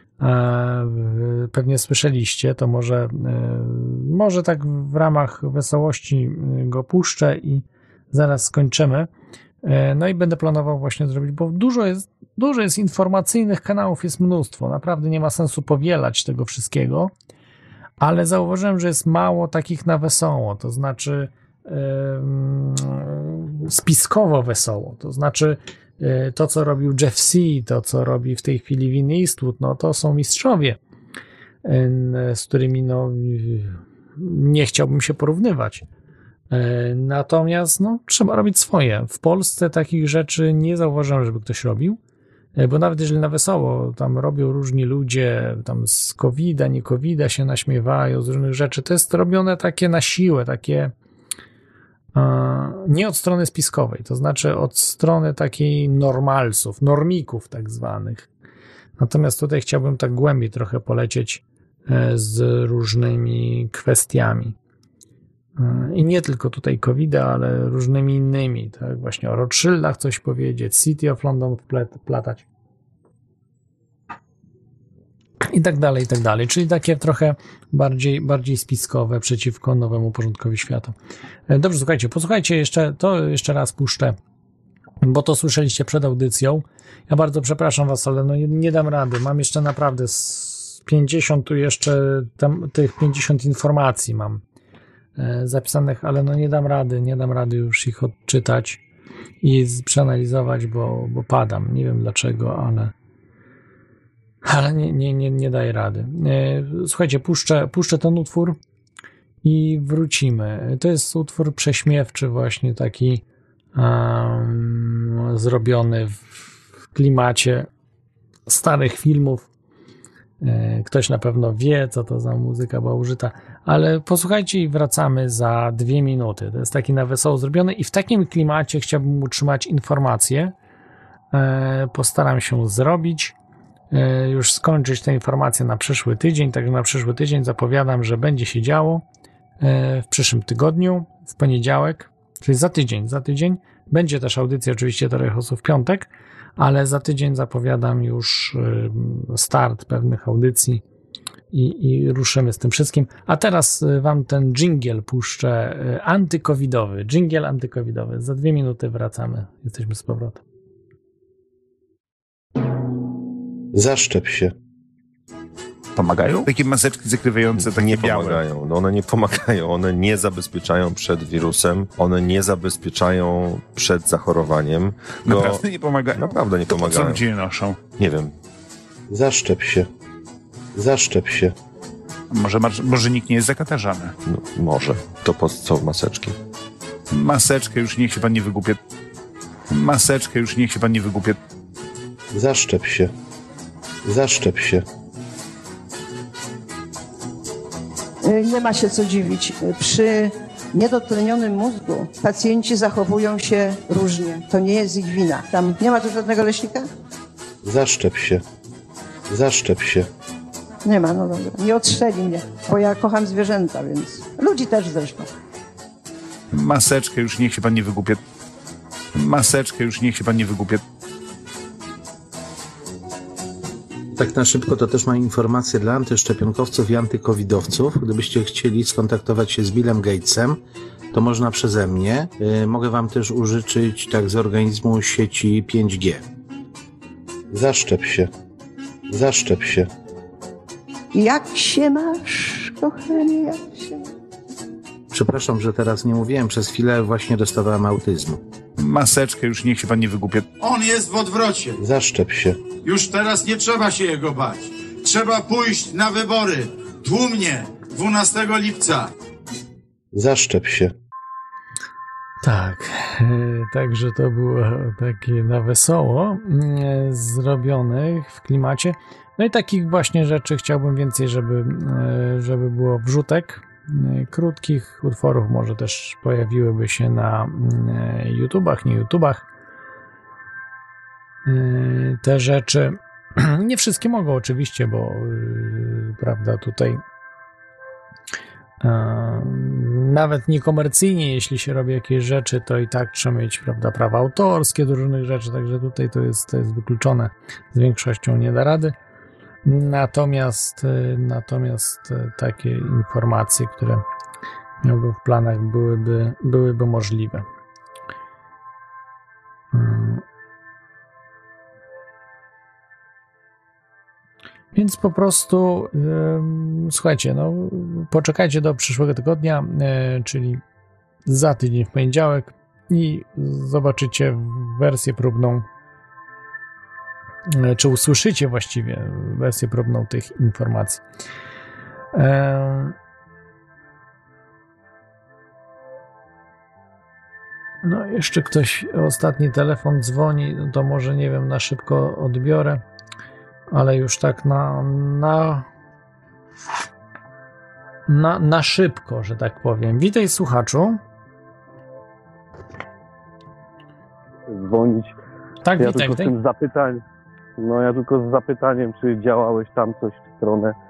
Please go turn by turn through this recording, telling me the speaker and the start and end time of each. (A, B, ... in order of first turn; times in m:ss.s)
0:00.2-0:09.1 A
0:09.6-0:17.1 A
0:18.0-0:30.8 A
0:31.6-0:35.8 A
0:36.5-0:42.0 A
0:42.6-0:50.9 A
0:52.1-0:58.3 A
0:59.0-1:04.6 A
1:05.6-1:12.4 A
1:15.4-1:20.9 A
1:21.5-1:24.2 A
1:25.0-1:34.4 A
1:35.2-1:38.8 A
1:39.4-1:42.9 A
1:44.4-1:48.6 A
1:49.4-1:53.2 A
1:53.8-1:57.7 A
1:58.5-1:59.5 A
2:00.4-2:10.5 A
2:11.3-2:13.3 A
2:13.9-2:19.0 A
2:19.6-2:30.8 A
2:31.5-2:40.4 A
2:43.7-2:44.5 B
2:46.0-2:48.4 C
2:47.7-2:55.6 D
2:55.2-2:57.8 C
2:56.2-2:57.2 D
2:58.0-2:58.3 D
2:59.1-2:59.9 B
3:00.8-3:01.5 B
3:02.3-3:04.2 C
3:04.2-3:06.4 D
3:07.1-3:08.8 C
3:09.7-3:11.4 C
3:12.3-3:13.1 B
3:14.0-3:14.8 B
3:18.2-3:26.9 E
3:27.6-3:28.4 B
3:29.3-3:30.1 B
3:30.8-3:35.3 E
3:36.5-3:38.2 C
3:39.2-3:40.8 C
3:44.1-3:50.6 F
3:51.1-3:56.2 F
3:57.5-3:58.3 B
3:59.1-3:59.9 B
4:01.1-4:04.1 E
4:05.1-4:08.4 F
4:08.8-4:10.5 C
4:10.6-4:11.8 G
4:11.8-4:12.6 B
4:12.8-4:19.1 G
4:20.1-4:20.9 B
4:22.4-4:39.4 A
4:41.4-4:47.0 A
4:48.8-4:58.9 A
4:59.6-5:04.0 A
5:04.8-5:07.4 A
5:09.7-5:10.2 A
5:14.7-5:20.6 A
5:21.2-5:25.6 A
5:27.5-5:31.0 A
5:32.1-5:32.9 A
5:37.8-5:42.8 A
5:43.7-5:45.7 A
5:48.1-5:51.0 A
5:54.5-5:55.2 H
5:55.6-5:56.3 A
5:55.8-5:57.0 H
5:57.6-6:00.8 H